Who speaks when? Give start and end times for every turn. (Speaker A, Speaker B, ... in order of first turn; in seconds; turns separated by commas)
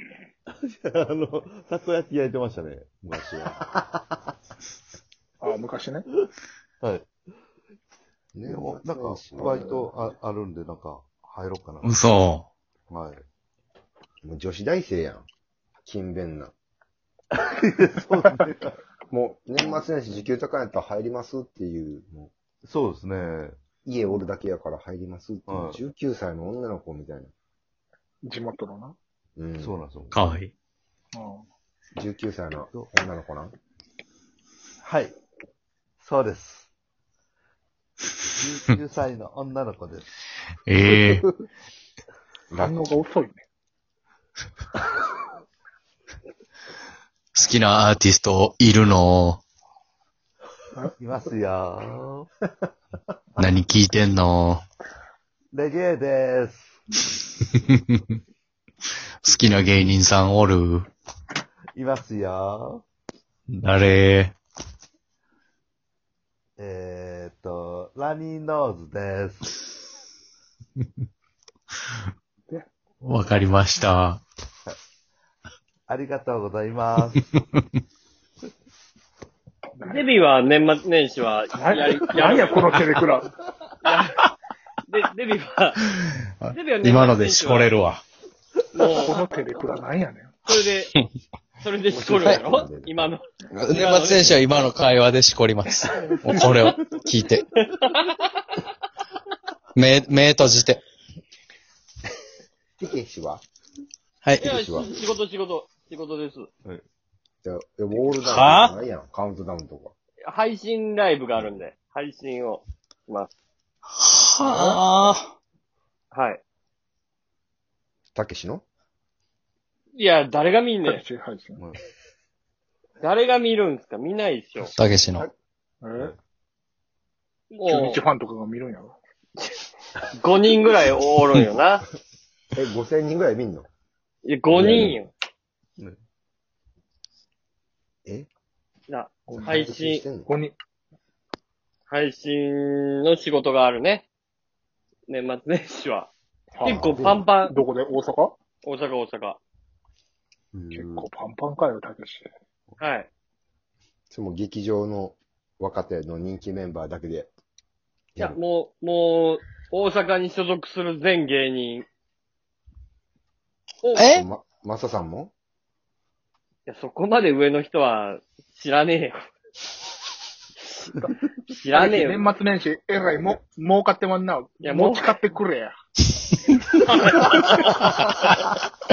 Speaker A: 0.6-3.7, Speaker B: 5.4-6.1, Speaker A: 6.8-7.1, Speaker C: 8.3-9.9, Speaker A: 8.4-11.9, Speaker D: 11.8-12.5, Speaker A: 12.9-13.2, Speaker C: 14.2-15.2, Speaker C: 15.8-16.5, Speaker A: 17.4-18.8, Speaker B: 18.1-18.4, Speaker C: 19.1-22.3, Speaker A: 22.6-23.6, Speaker C: 23.9-27.3, Speaker A: 25.5-25.8, Speaker B: 28.2-28.9, Speaker C: 29.4-29.7, Speaker A: 29.6-30.4, Speaker D: 30.1-30.5, Speaker B: 31.1-31.4, Speaker C: 31.9-33.5, Speaker A: 34.8-35.1, Speaker A: 36.0-36.7, Speaker A: 38.4-40.1, Speaker D: 40.7-41.3, Speaker C: 42.5-43.0, Speaker B: 42.5-43.4, Speaker D: 47.3-49.4, Speaker A: 51.0-52.3, Speaker D: 53.4-54.6, Speaker A: 55.5-56.8, Speaker D: 57.7-58.0, Speaker D: 59.2-60.9, Speaker A: 61.8-62.8, Speaker D: 63.5-64.3, Speaker A: 66.6-69.6, Speaker D: 73.0-74.2, Speaker A: 75.9-77.2, Speaker B: 79.8-80.2, Speaker E: 79.8-82.7, Speaker B: 81.5-83.3, Speaker E: 83.8-84.2, Speaker E: 84.9-85.8, Speaker D: 86.4-88.0, Speaker E: 86.5-87.8, Speaker E: 88.7-89.2, Speaker B: 89.0-90.5, Speaker E: 90.5-90.9, Speaker E: 91.6-94.7, Speaker C: 91.9-93.1, Speaker D: 92.2-92.5, Speaker D: 93.5-97.5, Speaker A: 96.2-96.7, Speaker E: 97.6-98.2, Speaker D: 99.8-100.8, Speaker C: 102.8-103.4, Speaker D: 104.2-104.6, Speaker E: 104.4-106.5, Speaker C: 104.4-104.9, Speaker C: 107.4-109.9, Speaker D: 108.1-108.8, Speaker E: 110.2-113.3, Speaker D: 114.0-115.3, Speaker C: 114.4-114.8, Speaker E: 116.1-116.4, Speaker C: 118.1-118.6, Speaker E: 119.9-121.0, Speaker B: 120.8-121.6, Speaker E: 123.0-124.7, Speaker C: 124.6-125.3, Speaker D: 124.8-125.2, Speaker B: 125.8-126.1, Speaker E: 127.5-128.0, Speaker B: 127.6-129.0, Speaker E: 130.2-131.9, Speaker C: 132.5-133.7, Speaker E: 134.2-135.1, Speaker C: 134.5-135.0, Speaker A: 134.5-134.9, Speaker E: 138.9-140.1, Speaker B: 139.3-139.6, Speaker C: 139.3-140.3, Speaker B: 140.1-140.5, Speaker E: 141.9-144.1, Speaker E: 145.1-146.1, Speaker B: 146.5-148.4, Speaker E: 146.6-147.6, Speaker C: 146.6-147.3, Speaker E: 148.6-149.4, Speaker A: 150.5-151.1, Speaker B: 150.7-152.3, Speaker E: 152.8-153.1, Speaker C: 154.1-157.3, Speaker E: 158.2-161.9, Speaker E: 163.8-164.1, Speaker D: 163.9-164.2, Speaker C: 164.1-165.3, Speaker E: 166.7-169.2, Speaker E: 171.5-172.2, Speaker B: 171.7-175.8, Speaker E: 174.6-175.2, Speaker E: 176.9-177.7, Speaker B: 177.2-177.9